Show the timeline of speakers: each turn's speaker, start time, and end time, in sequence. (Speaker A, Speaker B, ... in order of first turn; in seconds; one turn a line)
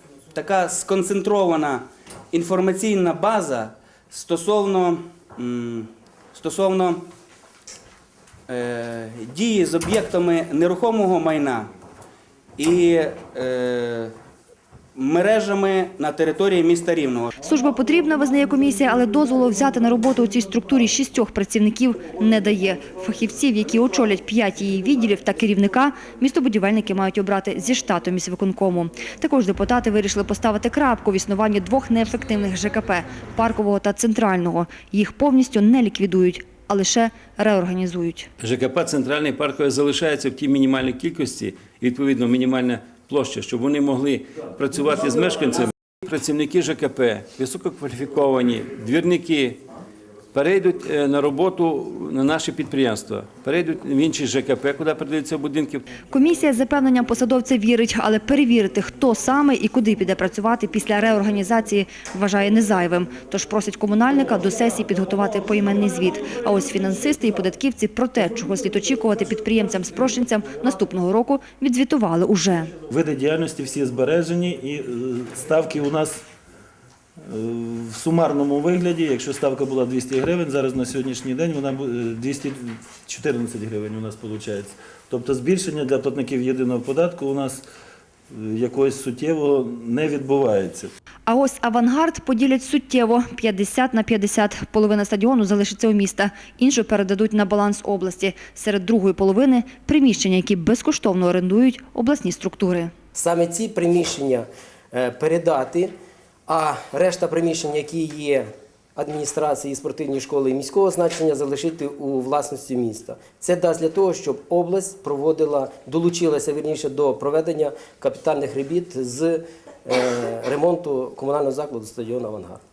Speaker A: 0.3-7.0
Speaker A: 8.5-11.7
Speaker A: 12.6-14.1
Speaker A: 14.9-17.3
Speaker B: 17.4-38.3
Speaker C: 38.4-49.6
Speaker C: 50.3-55.9
Speaker B: 56.1-72.7
Speaker D: 72.9-76.2
Speaker D: 77.3-87.7
Speaker D: 88.3-90.9
Speaker B: 91.3-102.9
Speaker E: 103.2-105.9
Speaker E: 106.5-122.6